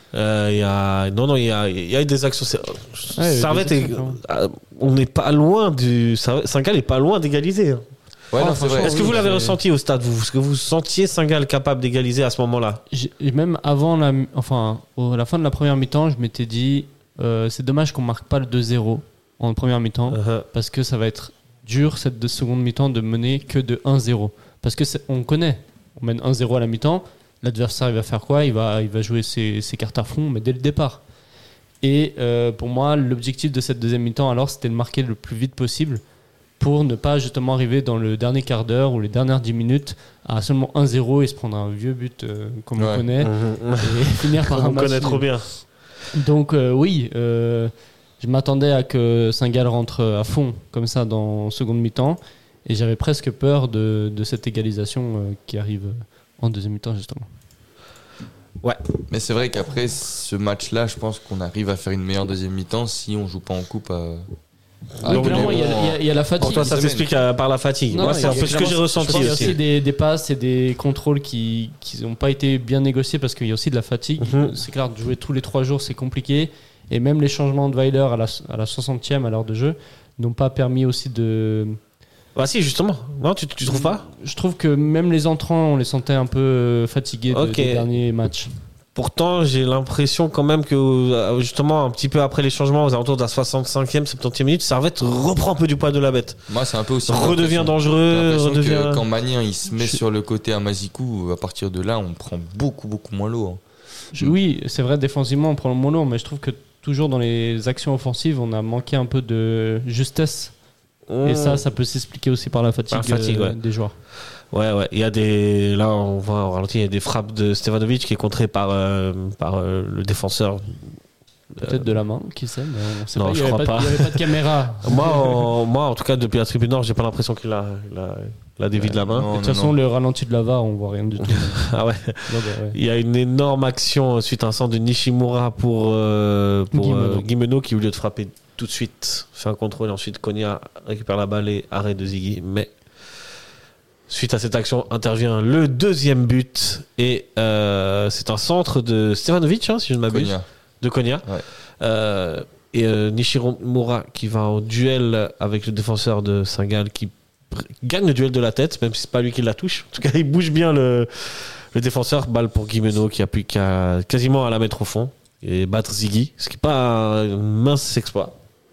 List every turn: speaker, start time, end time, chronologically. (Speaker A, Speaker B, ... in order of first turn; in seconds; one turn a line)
Speaker A: 0.1-7.8
Speaker B: 3.2-4.2
Speaker C: 8.3-9.2
Speaker B: 8.4-9.6
Speaker A: 8.8-12.8
Speaker B: 12.9-31.0
Speaker A: 20.1-20.5
Speaker B: 31.8-36.0
Speaker B: 36.6-45.3
Speaker C: 42.8-43.1
Speaker A: 43.2-45.6
Speaker B: 46.1-57.3
Speaker C: 59.1-64.3
Speaker A: 65.0-65.8
Speaker C: 65.0-67.1
Speaker B: 65.0-66.9
Speaker A: 66.4-69.6
Speaker B: 67.9-81.8
Speaker C: 68.0-69.6
Speaker A: 74.2-74.5
Speaker A: 82.4-84.0
Speaker B: 83.7-88.5
Speaker A: 87.3-87.8
Speaker A: 89.0-96.4
Speaker C: 96.5-103.6
Speaker A: 97.1-99.0
Speaker B: 104.1-110.5
Speaker A: 111.1-111.6
Speaker B: 111.2-114.0
Speaker A: 112.9-113.6
Speaker A: 114.5-120.9
Speaker A: 121.6-121.8
Speaker B: 121.6-125.5
Speaker A: 123.1-124.3
Speaker A: 124.8-129.3
Speaker B: 128.8-131.7
Speaker C: 129.1-129.8
Speaker A: 131.2-142.7
Speaker B: 132.3-132.8
Speaker B: 136.7-137.3
Speaker A: 144.1-151.3
Speaker C: 150.1-150.4
Speaker A: 151.8-168.4